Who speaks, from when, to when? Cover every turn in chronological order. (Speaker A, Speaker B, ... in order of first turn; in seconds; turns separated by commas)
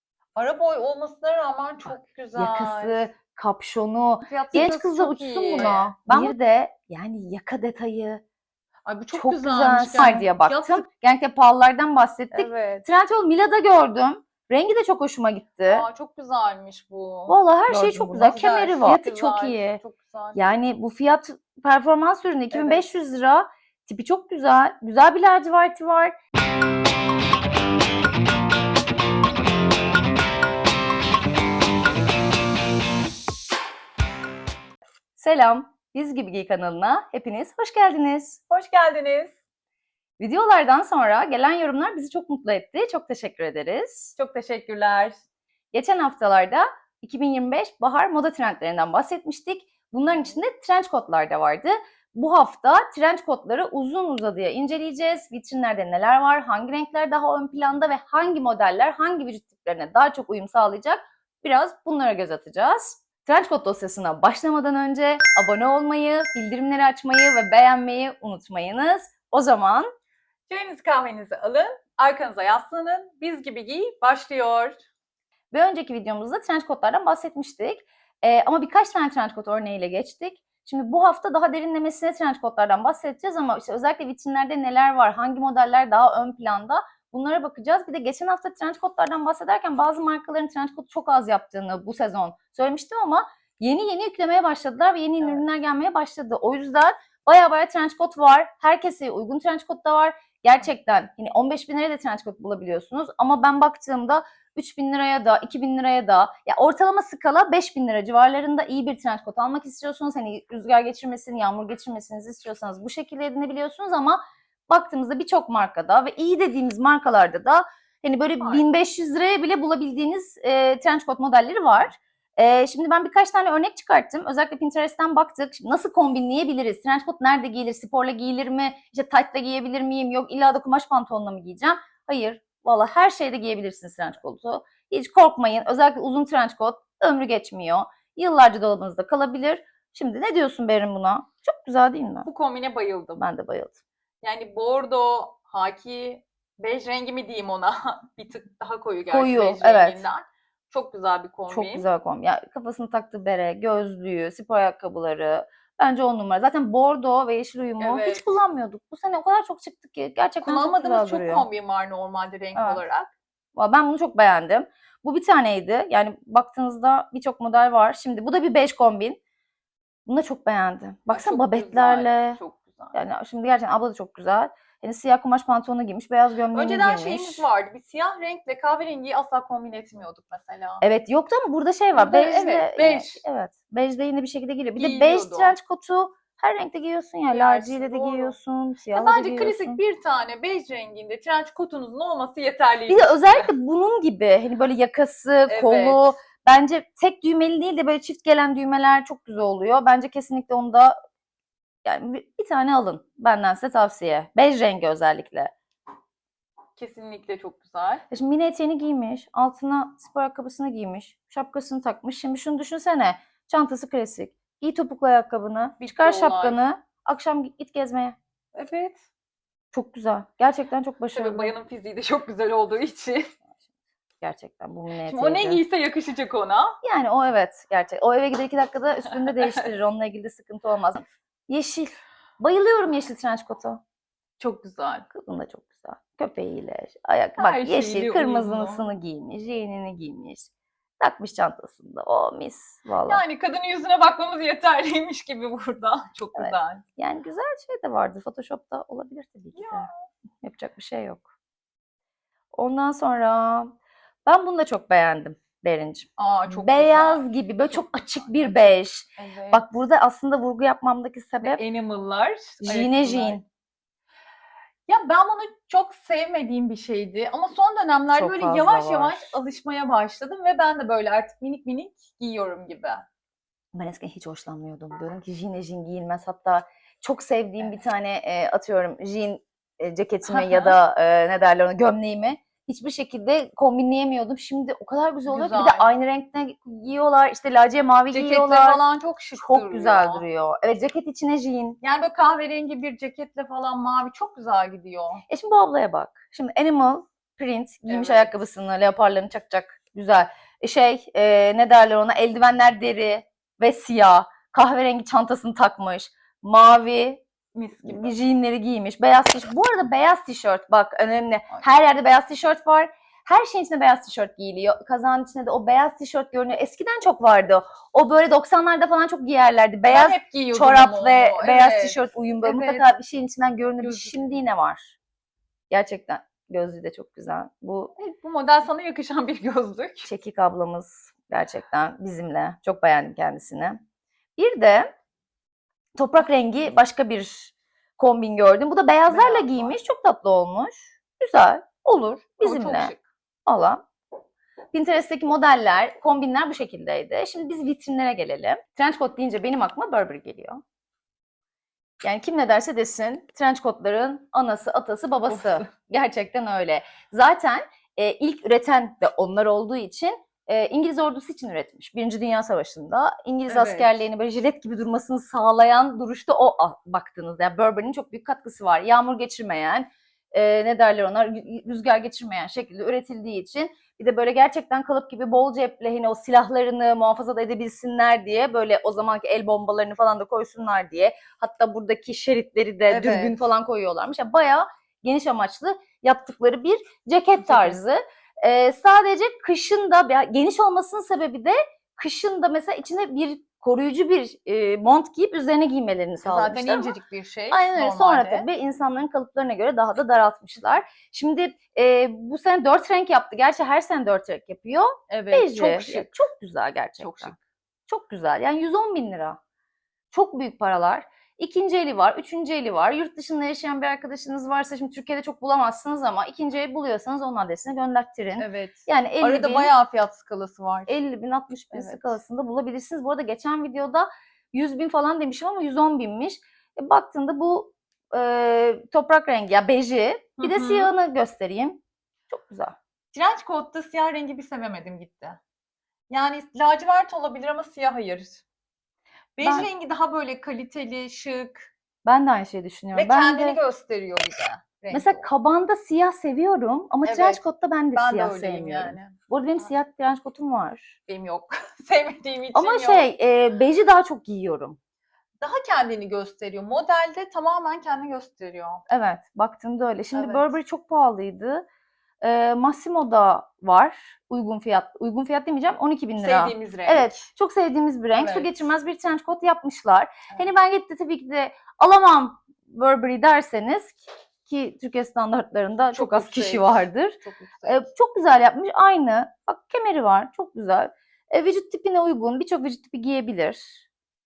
Speaker A: 0.4-3.1, Speaker B: 1.9-8.2, Speaker A: 4.3-6.4, Speaker A: 8.9-10.8, Speaker B: 9.1-15.9, Speaker A: 12.3-12.9, Speaker A: 15.7-20.4, Speaker B: 17.3-19.8, Speaker B: 20.4-26.2, Speaker A: 22.5-22.9, Speaker B: 35.2-38.4, Speaker A: 38.5-39.4, Speaker B: 40.2-44.1, Speaker A: 44.2-45.2, Speaker B: 45.7-69.9, Speaker A: 70.5-74.8, Speaker B: 75.5-142.3, Speaker A: 95.2-95.5, Speaker A: 118.4-118.7, Speaker A: 142.2-143.2, Speaker B: 143.2-143.8, Speaker A: 144.2-151.9, Speaker B: 149.1-150.0, Speaker B: 151.5-161.5, Speaker A: 157.8-158.3, Speaker A: 160.4-163.1, Speaker B: 162.6-162.8, Speaker B: 163.6-169.2, Speaker B: 170.1-172.4, Speaker A: 171.1-173.0, Speaker B: 172.9-177.5, Speaker A: 176.5-180.8, Speaker B: 180.8-189.8, Speaker A: 181.9-183.2, Speaker A: 184.8-185.6, Speaker A: 187.3-188.4, Speaker A: 188.9-193.5, Speaker B: 192.9-201.0, Speaker A: 195.5-196.2, Speaker B: 201.8-205.5, Speaker A: 206.8-208.0, Speaker B: 208.1-218.2, Speaker A: 215.8-216.6, Speaker A: 218.5-219.0, Speaker B: 219.7-221.6, Speaker A: 221.1-223.3, Speaker B: 224.2-225.6, Speaker A: 225.1-226.8, Speaker B: 226.8-233.8, Speaker A: 229.2-229.6, Speaker A: 234.4-235.1, Speaker B: 235.1-240.5, Speaker A: 237.4-238.8, Speaker B: 241.0-243.2, Speaker A: 243.1-246.8, Speaker B: 246.3-249.9, Speaker A: 249.6-250.0, Speaker B: 250.4-251.2, Speaker B: 252.6-253.7, Speaker B: 254.3-261.6, Speaker A: 256.2-259.6, Speaker A: 261.4-263.4, Speaker B: 262.6-263.4, Speaker A: 264.9-273.1, Speaker B: 268.2-269.4, Speaker B: 273.7-288.8, Speaker A: 280.3-280.8, Speaker A: 285.3-285.9, Speaker A: 288.1-290.2, Speaker B: 289.4-291.8, Speaker A: 291.8-295.2, Speaker B: 295.3-307.2, Speaker A: 297.9-298.3, Speaker A: 307.5-308.1, Speaker B: 307.8-325.0, Speaker A: 319.9-322.9, Speaker A: 323.8-324.4, Speaker B: 325.7-327.9, Speaker A: 328.0-330.1, Speaker B: 330.1-333.8, Speaker B: 334.4-334.9, Speaker B: 336.0-342.9, Speaker A: 339.1-339.8, Speaker A: 342.4-343.0, Speaker B: 343.5-343.8, Speaker B: 344.7-350.6, Speaker B: 352.0-397.0, Speaker A: 355.3-355.6, Speaker A: 363.5-364.1, Speaker A: 382.9-383.4, Speaker A: 387.4-387.8, Speaker A: 396.2-398.5, Speaker B: 397.5-407.4, Speaker A: 405.1-406.1, Speaker A: 407.0-407.4, Speaker B: 407.9-409.4, Speaker B: 410.1-419.7, Speaker A: 418.4-421.0, Speaker B: 420.9-432.8, Speaker A: 421.7-422.2, Speaker A: 430.4-430.9, Speaker A: 433.1-435.4, Speaker A: 436.1-438.4, Speaker A: 439.4-441.7, Speaker B: 439.4-439.7, Speaker B: 442.1-443.6, Speaker A: 442.9-445.3, Speaker B: 444.9-451.0, Speaker A: 447.1-447.4, Speaker A: 447.9-449.7, Speaker A: 451.1-453.1, Speaker B: 452.6-454.8, Speaker A: 455.4-458.8, Speaker B: 458.9-461.6, Speaker A: 460.1-460.5, Speaker B: 462.2-483.8, Speaker A: 466.2-467.2, Speaker A: 468.2-468.5, Speaker A: 475.9-477.9